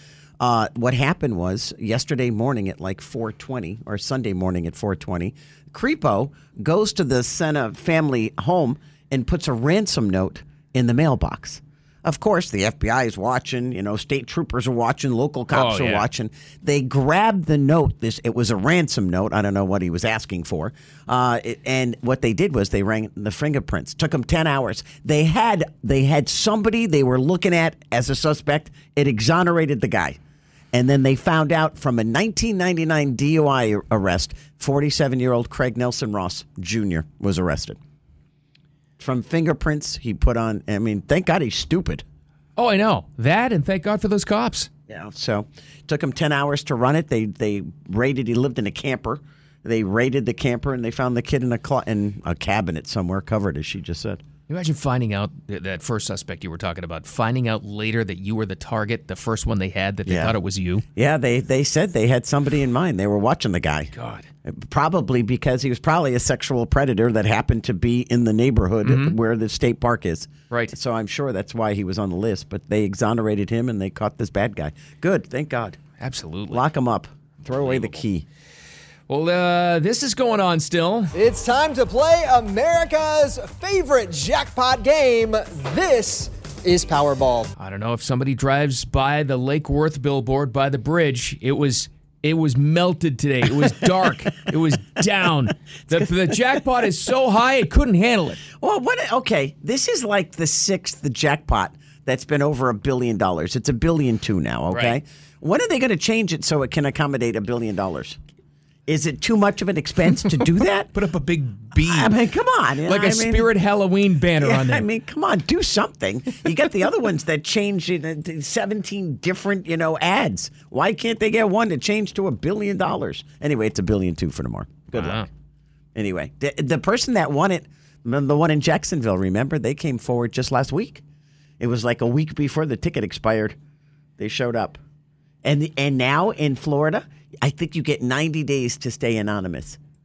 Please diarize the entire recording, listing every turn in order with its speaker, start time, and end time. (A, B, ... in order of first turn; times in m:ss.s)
0:00.4-0:30.2 A
0:15.5-0:16.1 B
0:30.7-0:37.8 A
0:39.0-0:42.0 A
0:42.6-0:44.7 B
0:44.9-0:54.2 A
0:54.5-1:00.8 B
1:00.1-1:00.4 A
1:01.0-1:03.9 A
1:03.9-1:04.3 B
1:04.4-1:15.8 A
1:08.8-1:09.2 B
1:16.0-1:16.7 B
1:16.5-1:18.2 A
1:17.6-1:18.0 B
1:19.1-1:21.1 B
1:21.1-1:27.5 C
1:27.6-1:38.4 B
1:38.6-1:48.2 A
1:44.7-1:45.0 B
1:48.9-1:50.9 A
1:50.9-1:52.2 B
1:51.7-1:53.5 A
1:52.8-1:54.9 B
1:54.4-2:05.3 A
2:04.9-2:05.3 B
2:06.0-2:11.0 A
2:11.6-2:13.6 A
2:14.2-2:14.8 A
2:15.4-2:19.8 A